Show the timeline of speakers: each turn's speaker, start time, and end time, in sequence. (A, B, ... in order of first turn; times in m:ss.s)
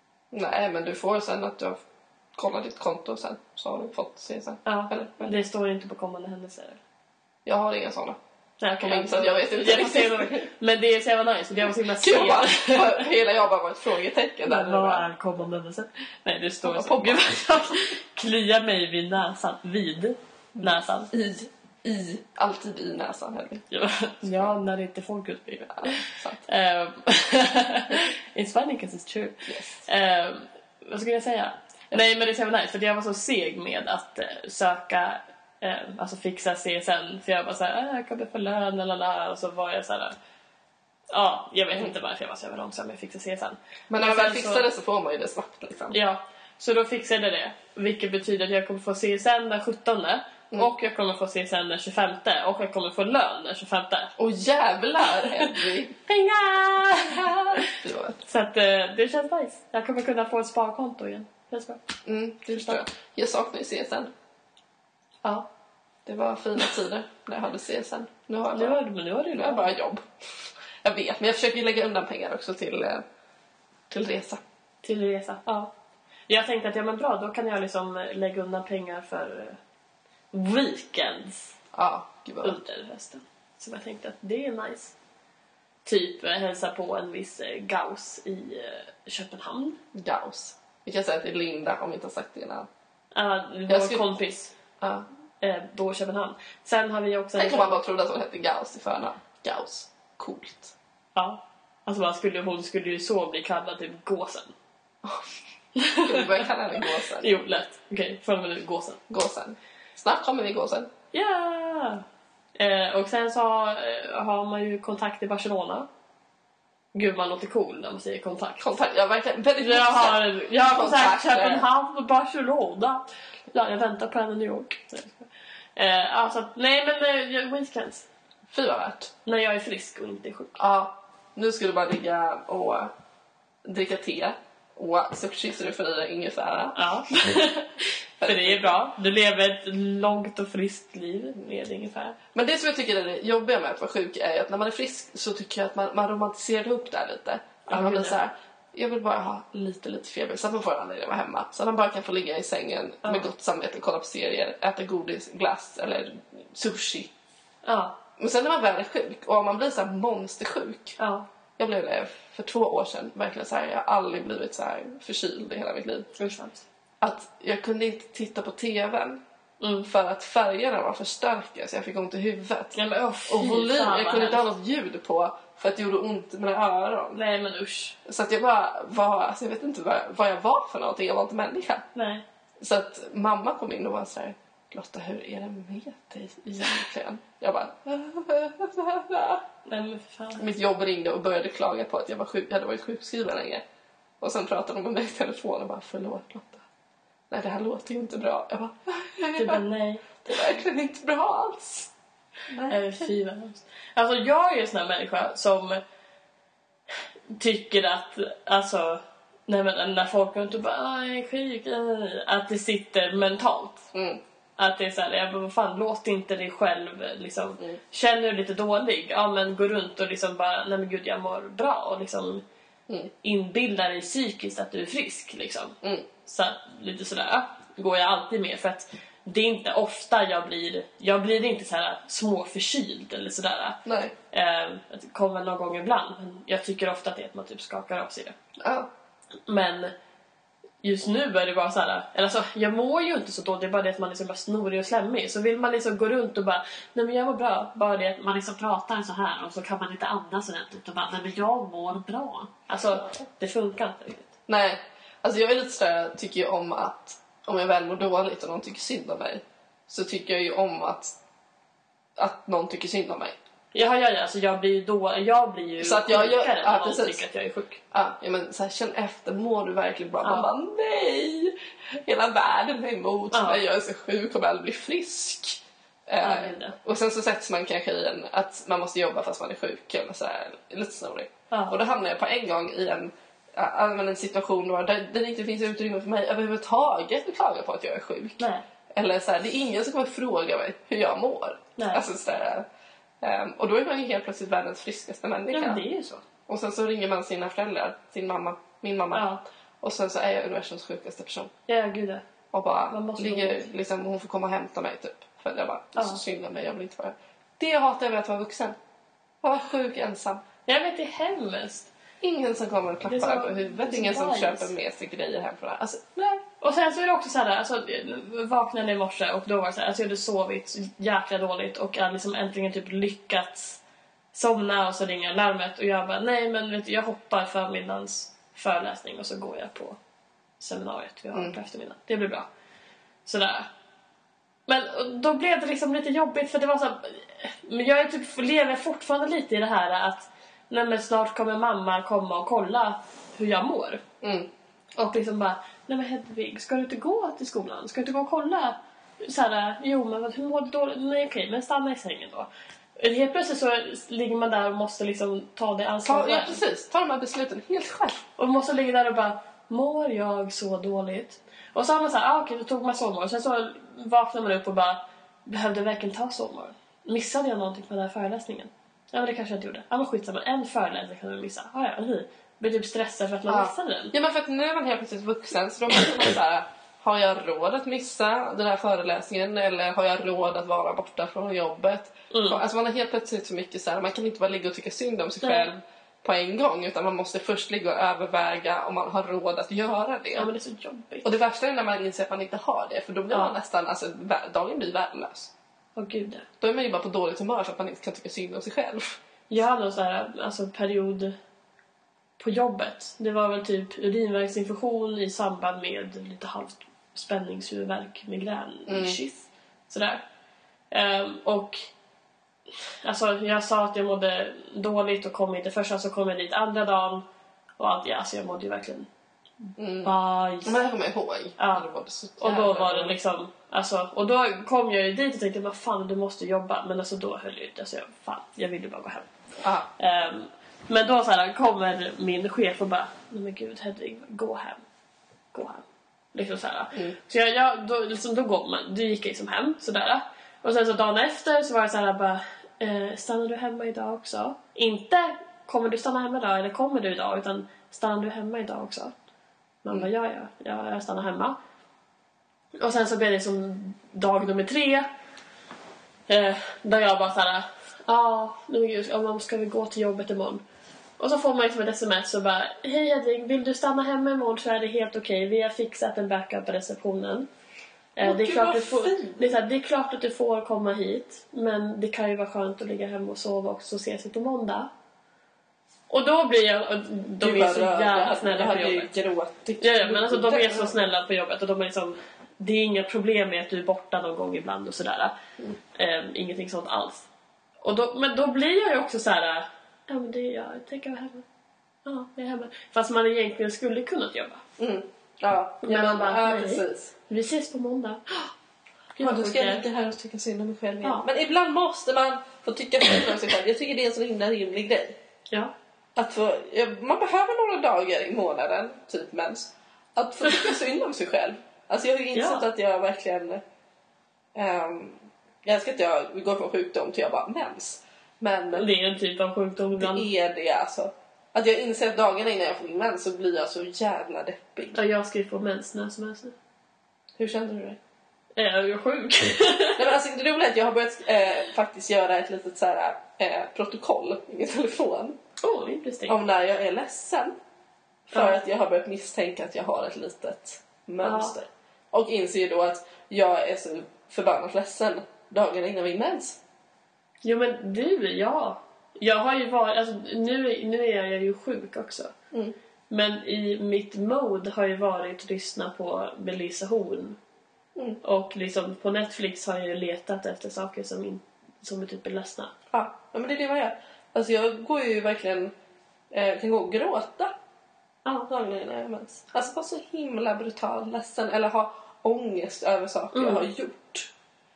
0:00.3-0:01.8 A
0:02.3-0:05.4 A
0:04.6-0:06.8 B
0:07.4-0:08.2 A
0:08.6-0:13.1 B
0:08.8-0:10.5 A
0:12.0-0:15.1 A
0:14.4-0:21.1 B
0:16.6-0:17.4 A
0:20.6-0:23.6 A
0:23.7-0:40.2 B
0:24.2-0:24.5 A
0:25.8-0:26.4 A
0:29.5-0:29.8 A
0:41.1-0:44.7 B
0:43.9-0:46.0 A
0:45.9-0:54.1 B
0:54.2-0:56.0 A
0:55.1-0:57.7 B
0:56.9-0:58.2 A
0:58.2-1:01.8 B
1:02.0-1:04.1 A
1:02.5-1:02.8 B
1:06.0-1:08.8 A
1:08.5-1:09.7 B
1:09.3-1:10.0 A
1:10.8-1:13.0 A
1:13.9-1:14.4 A
1:14.8-1:15.7 B
1:16.3-1:19.6 B
1:20.3-1:21.6 B
1:21.7-1:22.6 A
1:22.4-1:24.9 B
1:25.8-1:29.8 B
1:29.9-1:32.7 A
1:33.1-1:34.5 B
1:33.7-1:34.0 A
1:34.8-1:35.0 A
1:35.4-1:37.8 B
1:37.4-1:40.7 A
1:41.2-1:44.5 B
1:45.8-1:49.0 B
1:46.0-1:47.4 A
1:49.1-1:50.9 A
1:51.1-1:52.0 B
1:52.6-1:55.9 B
1:56.9-1:58.7 B
1:58.6-2:01.6 A
1:59.6-2:08.1 B
2:08.5-2:09.1 A
2:09.2-2:10.6 B
2:10.6-2:12.9 A
2:13.6-2:16.9 A
2:16.7-2:22.2 B
2:18.2-2:18.8 A
2:22.3-2:37.1 A
2:27.7-2:28.2 B
2:33.0-2:33.3 B
2:37.6-2:38.0 B
2:38.2-2:41.0 A
2:41.0-2:41.2 B
2:41.6-2:46.1 A
2:46.1-2:46.6 B
2:47.0-2:49.2 A
2:49.6-2:49.9 B
2:49.8-2:52.8 A
2:52.7-2:54.5 B
2:53.3-2:57.2 A
2:57.1-2:58.0 B
2:58.0-3:01.8 A
3:01.9-3:02.2 B
3:02.6-3:09.4 A
3:09.6-3:10.4 B
3:10.4-3:13.6 A
3:14.2-3:16.6 A
3:17.3-3:19.6 A
3:19.4-3:20.2 B
3:20.2-3:21.9 A
3:22.5-3:23.1 A
3:22.6-3:25.8 B
3:27.3-3:33.9 B
3:33.9-3:34.2 A
3:34.6-3:42.4 B
3:43.2-3:58.4 B
3:45.8-3:46.1 A
3:53.8-3:54.1 A
3:58.6-3:58.9 A
3:59.5-3:59.9 B
4:00.8-4:14.3 B
4:14.5-4:21.2 A
4:22.2-4:23.4 A
4:23.7-4:27.8 B
4:25.8-4:27.2 A
4:27.9-4:48.4 A
4:30.2-4:30.5 B
4:33.3-4:33.6 B
4:36.2-4:36.8 B
4:41.5-4:41.8 B
4:48.4-4:48.6 B
4:48.9-4:52.6 A
4:51.8-4:52.0 B
4:53.2-4:55.8 A
4:55.5-4:56.2 B
4:56.5-4:59.3 A
4:59.1-4:59.4 B
4:59.8-5:01.5 A
5:01.7-5:02.2 B
5:02.5-5:08.8 A
5:02.9-5:03.7 B
5:09.4-5:10.4 A
5:10.6-5:11.9 B
5:12.2-5:16.4 A
5:13.0-5:14.7 B
5:16.6-5:23.8 B
5:24.3-5:30.0 B
5:30.6-5:32.5 B
5:33.2-5:33.7 B
5:34.7-5:44.0 B
5:44.2-5:44.5 A
5:45.0-5:56.6 B
5:56.0-5:58.2 A
5:58.4-6:14.1 B
6:13.5-6:30.5 A
6:22.3-6:22.6 B
6:25.4-6:25.8 B
6:30.4-6:31.3 B
6:31.2-6:35.5 A
6:36.0-6:36.4 B
6:36.6-6:39.2 A
6:39.5-6:41.3 B
6:42.4-6:50.2 B
6:48.9-6:49.2 A
6:50.9-6:51.8 B
6:53.0-6:57.2 B
6:57.8-6:59.1 B
6:59.6-7:00.8 B
6:59.8-7:00.1 A
7:00.6-7:03.2 A
7:01.6-7:01.9 B
7:02.4-7:09.3 B
7:09.6-7:09.9 A
7:10.0-7:14.8 B
7:15.5-7:29.1 B
7:29.8-7:31.6 B
7:32.8-7:35.1 B
7:36.3-7:40.6 B
7:41.2-7:47.5 B
7:48.2-7:54.9 B
7:48.2-7:49.5 A
7:56.1-7:59.1 B
7:57.4-8:01.0 A
7:59.8-8:05.3 B
8:05.9-8:07.3 B
8:07.8-8:11.4 B
8:12.0-8:14.6 B
8:14.8-8:17.1 A
8:15.8-8:18.5 B
8:19.2-8:19.8 B
8:19.2-8:25.2 A
8:26.2-8:33.6 A
8:32.3-8:32.6 B
8:34.5-8:38.8 A
8:38.7-8:40.3 B
8:40.0-8:45.0 A
8:44.9-8:46.5 B
8:47.4-8:48.0 A
8:48.6-8:50.0 B
8:50.0-8:55.4 A
8:55.6-8:56.4 B
8:56.3-8:57.6 A
8:58.3-9:06.6 A
9:01.2-9:01.5 B
9:07.4-9:12.3 B
9:13.1-9:17.4 B
9:18.2-9:22.7 B
9:22.9-9:25.7 A
9:26.3-9:27.5 A
9:28.5-9:34.3 A
9:33.3-9:33.7 B